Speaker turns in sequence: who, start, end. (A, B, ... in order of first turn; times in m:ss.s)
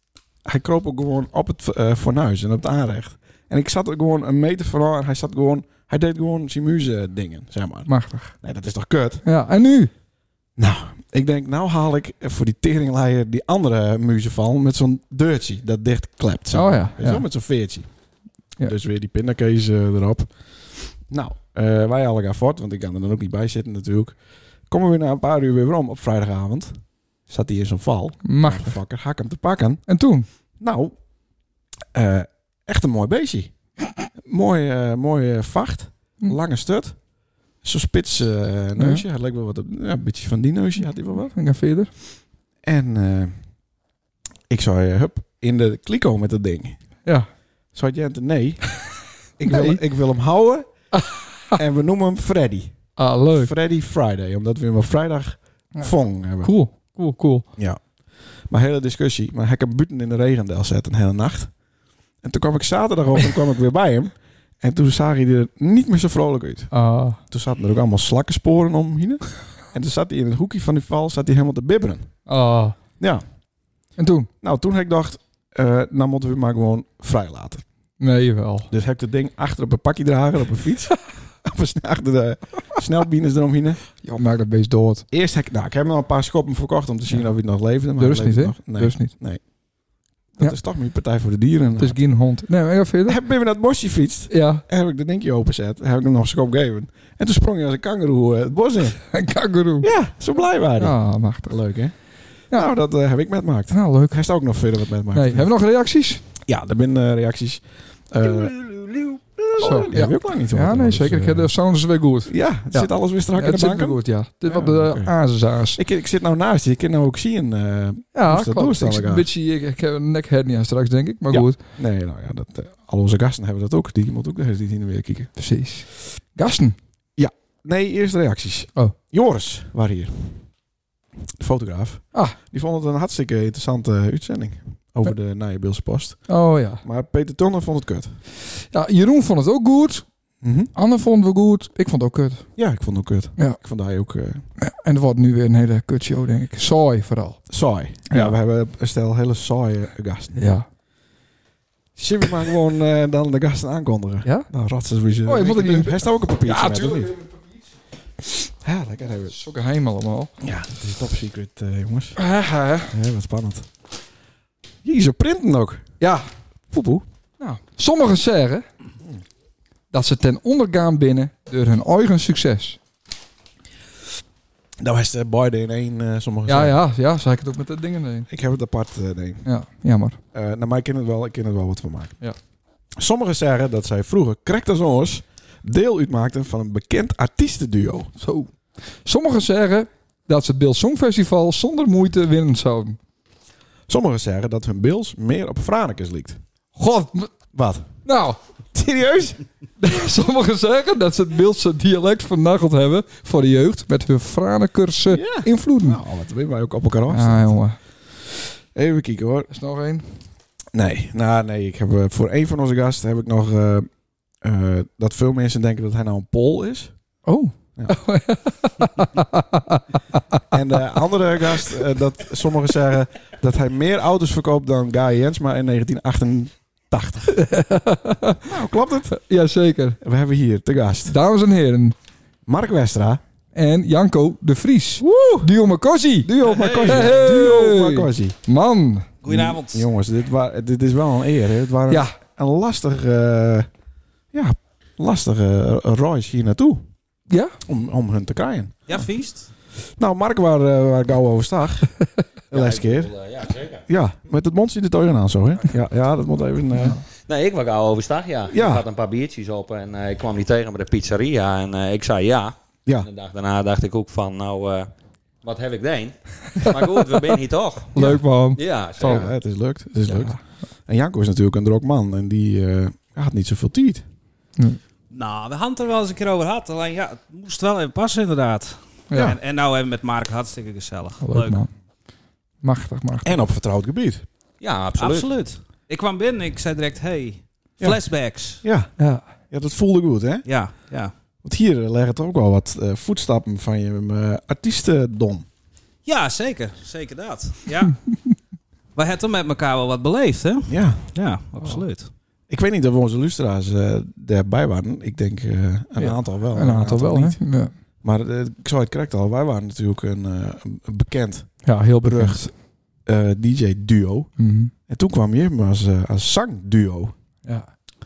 0:00.4-0:09.2 A
0:07.9-0:08.3 B
0:09.2-0:09.9 B
0:10.6-0:17.9 A
0:16.5-0:17.2 B
0:18.6-0:20.3 A
0:20.9-0:24.2 A
0:24.7-0:29.8 A
0:28.2-0:28.8 B
0:29.9-0:30.2 B
0:30.6-0:30.9 A
0:31.9-0:33.5 A
0:34.2-0:37.0 A
0:37.6-0:41.3 A
0:38.8-0:39.0 B
0:41.3-0:41.9 B
0:42.6-0:43.4 A
0:44.5-0:46.8 A
0:47.7-0:48.6 A
0:49.4-0:50.7 A
0:49.5-0:49.8 B
0:51.5-0:56.5 A
0:53.0-0:53.5 B
0:56.4-0:57.5 B
0:58.5-1:01.5 A
1:02.2-1:06.7 A
1:06.7-1:07.2 B
1:07.3-1:12.1 A
1:12.3-1:12.8 B
1:14.0-1:14.3 B
1:14.4-1:17.6 A
1:18.0-1:18.7 B
1:18.7-1:23.8 A
1:24.0-1:25.0 B
1:25.1-1:29.4 A
1:28.0-1:29.1 B
1:30.4-1:32.0 A
1:31.8-1:33.2 B
1:33.1-1:39.0 A
1:34.3-1:34.6 B
1:39.0-1:39.9 B
1:39.8-1:42.0 A
1:40.8-1:41.6 B
1:42.5-1:45.5 A
1:43.7-1:44.2 B
1:45.1-1:46.2 B
1:46.4-1:48.9 A
1:49.4-1:51.5 A
1:49.6-1:55.8 B
1:52.3-1:55.2 A
1:55.7-1:59.3 A
1:58.1-2:01.6 B
2:01.3-2:05.3 A
2:05.4-2:06.8 B
2:07.2-2:10.5 A
2:11.4-2:18.2 A
2:16.3-2:16.8 B
2:18.6-2:20.0 B
2:20.4-2:20.7 A
2:20.7-2:22.5 B
2:22.6-2:24.4 A
2:24.6-2:27.4 B
2:27.5-2:30.4 A
2:28.1-2:28.3 B
2:30.3-2:30.6 B
2:32.0-2:37.1 A
2:35.2-2:37.5 B
2:38.6-2:39.4 A
2:39.3-2:40.3 B
2:40.4-2:42.2 A
2:42.2-2:42.9 B
2:42.9-2:43.7 A
2:44.8-2:45.9 A
2:46.0-2:46.3 B
2:46.7-2:47.0 A
2:47.4-2:48.7 B
2:49.9-2:52.8 B
2:54.8-2:56.8 A
2:56.5-2:58.3 B
2:58.3-2:59.4 A
2:59.4-3:00.2 B
3:00.3-3:02.2 A
3:03.0-3:08.2 A
3:08.2-3:08.5 B
3:09.0-3:13.0 B
3:13.9-3:16.4 A
3:16.8-3:17.3 B
3:17.5-3:18.0 A
3:18.0-3:18.4 B
3:18.7-3:19.4 A
3:19.8-3:26.0 B
3:25.1-3:27.6 A
3:27.1-3:27.8 B
3:28.7-3:29.5 A
3:29.5-3:30.0 B
3:30.7-3:33.9 A
3:34.4-3:36.9 A
3:37.2-3:39.8 B
3:40.5-3:47.4 A
3:47.4-3:48.4 B
3:48.4-3:49.2 A
3:49.1-3:50.0 B
3:50.0-3:51.2 A
3:51.1-3:51.9 B
3:52.4-3:53.2 A
3:53.5-3:59.1 B
3:55.0-3:55.5 A
3:56.2-3:58.4 A
3:56.4-3:57.5 C
3:59.2-3:59.9 C
3:59.3-4:03.7 A
4:01.9-4:02.1 B
4:04.3-4:06.8 A
4:07.6-4:08.8 A
4:08.9-4:09.5 C
4:10.0-4:11.9 A
4:12.5-4:13.1 A
4:12.5-4:13.8 D
4:13.9-4:17.0 A
4:17.2-4:24.9 D
4:18.5-4:18.8 A
4:25.4-4:29.3 D
4:27.9-4:29.3 B
4:29.0-4:34.0 A
4:30.1-4:30.4 B
4:35.1-4:41.6 C
4:39.1-4:39.4 B
4:41.2-4:41.7 B
4:42.6-4:43.4 B
4:43.2-4:44.2 A
4:44.6-4:45.3 D
4:45.0-4:48.6 C
4:47.8-4:50.4 A
4:49.0-4:49.2 B
4:50.4-4:51.1 C
4:51.4-4:55.5 A
4:56.0-4:58.0 C
4:58.9-5:02.1 C
5:00.7-5:01.1 A
5:02.5-5:07.4 A
5:06.0-5:07.7 B
5:08.0-5:14.3 A
5:11.6-5:12.5 B
5:14.4-5:14.7 B
5:14.9-5:17.1 A